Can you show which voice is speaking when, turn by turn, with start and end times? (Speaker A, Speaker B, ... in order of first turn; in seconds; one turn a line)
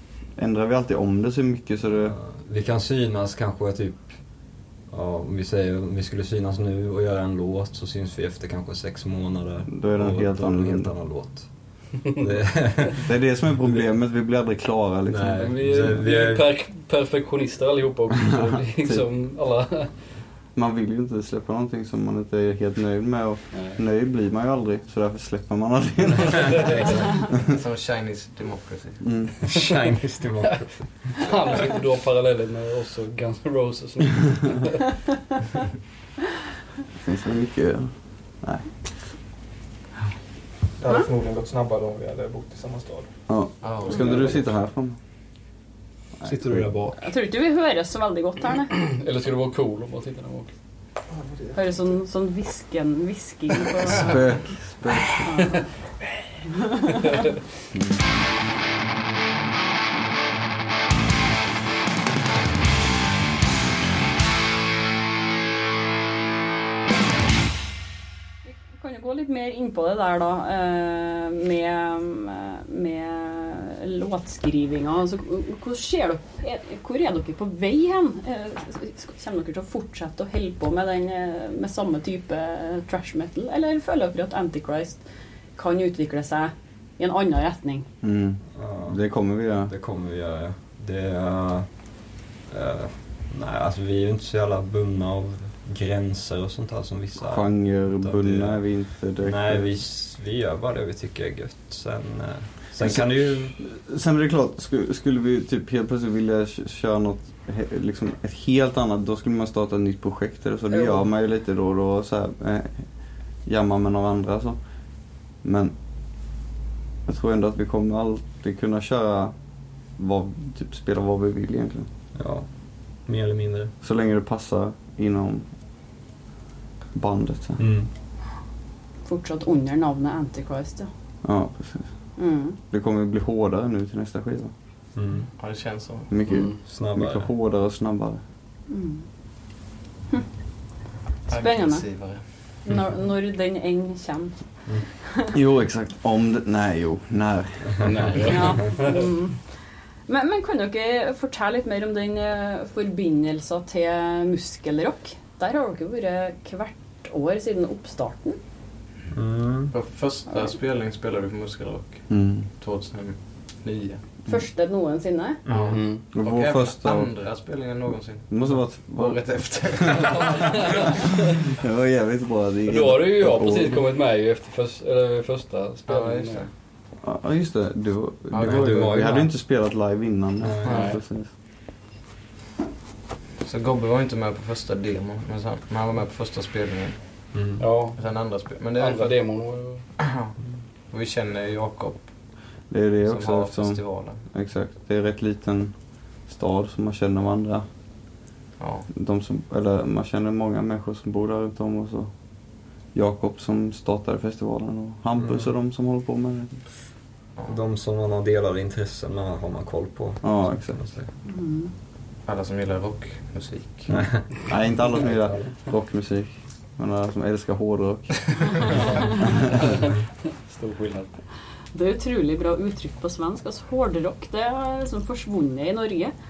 Speaker A: 0.4-2.1
Speaker B: 2.1-4.1
Speaker B: 4.9-11.5
Speaker A: 9.7-10.9
Speaker B: 12.1-13.0
Speaker A: 13.0-15.4
Speaker B: 15.1-16.5
Speaker C: 15.3-19.9
Speaker A: 20.5-27.3
Speaker C: 23.5-23.8
Speaker B: 26.3-27.2
Speaker D: 27.5-29.0
Speaker A: 29.0-29.4
Speaker B: 29.4-31.2
Speaker C: 31.2-35.0
Speaker A: 37.0-37.9
Speaker E: 40.8-43.1
Speaker A: 43.3-45.0
Speaker D: 43.6-44.1
Speaker E: 43.9-44.4
Speaker A: 46.2-46.7
Speaker B: 46.2-47.0
Speaker F: 47.0-48.7
Speaker C: 48.7-50.5
Speaker E: 51.1-51.7
Speaker F: 51.5-54.2
Speaker A: 53.9-55.4
Speaker F: 55.3-55.6
Speaker F: 56.5-57.2
Speaker F: 68.4-85.0
Speaker F: 85.5-87.9
Speaker A: 88.0-89.7
Speaker B: 88.5-89.0
Speaker B: 89.7-91.7
Speaker B: 92.5-98.6
Speaker A: 97.2-99.7
Speaker B: 99.2-103.6
Speaker A: 102.8-103.1
Speaker A: 103.6-112.8
Speaker A: 113.5-114.6
Speaker A: 115.4-115.7
Speaker A: 117.1-119.3
Speaker A: 120.0-121.9
Speaker B: 122.1-122.5
Speaker B: 123.0-123.7
Speaker A: 123.8-125.4
Speaker A: 126.9-127.6
Speaker B: 127.6-127.9
Speaker F: 129.0-130.9
Speaker A: 131.2-131.9
Speaker F: 132.2-132.6
Speaker A: 132.7-134.5
Speaker B: 134.9-135.3
Speaker D: 135.4-136.3
Speaker A: 136.1-138.2
Speaker B: 136.6-137.3
Speaker F: 138.7-139.1
Speaker D: 141.3-142.2
Speaker F: 141.3-141.8
Speaker F: 142.6-144.4
Speaker F: 145.0-145.3
Speaker A: 145.3-148.0
Speaker C: 147.8-148.9
Speaker F: 148.2-149.4
Speaker F: 150.1-158.4
Speaker B: 159.1-159.7
Speaker D: 159.7-164.0
Speaker A: 162.1-162.5
Speaker F: 164.2-165.4
Speaker B: 165.4-165.8
Speaker D: 165.4-171.0
Speaker C: 165.7-166.0
Speaker A: 166.1-167.1
Speaker A: 168.3-169.2
Speaker A: 171.5-173.8
Speaker C: 172.7-176.5
Speaker D: 175.9-176.5
Speaker A: 177.0-181.3
Speaker D: 178.3-179.0
Speaker B: 178.4-179.3
Speaker B: 180.4-180.9
Speaker D: 180.6-180.9
Speaker C: 180.7-180.9
Speaker D: 183.4-187.0
Speaker B: 187.3-187.6
Speaker C: 187.6-188.0
Speaker D: 187.9-189.2
Speaker C: 188.8-189.8
Speaker D: 190.0-190.3
Speaker D: 190.9-192.1
Speaker A: 192.7-195.7
Speaker D: 193.1-194.2
Speaker A: 196.3-197.6
Speaker D: 198.6-198.9
Speaker A: 198.9-202.1
Speaker A: 202.9-206.6
Speaker B: 205.2-205.5
Speaker B: 207.5-211.1
Speaker A: 210.2-210.8
Speaker F: 211.2-211.7
Speaker D: 212.3-213.9
Speaker B: 213.9-215.4
Speaker A: 214.4-218.6
Speaker C: 219.2-219.9
Speaker C: 220.4-221.1
Speaker F: 221.7-226.1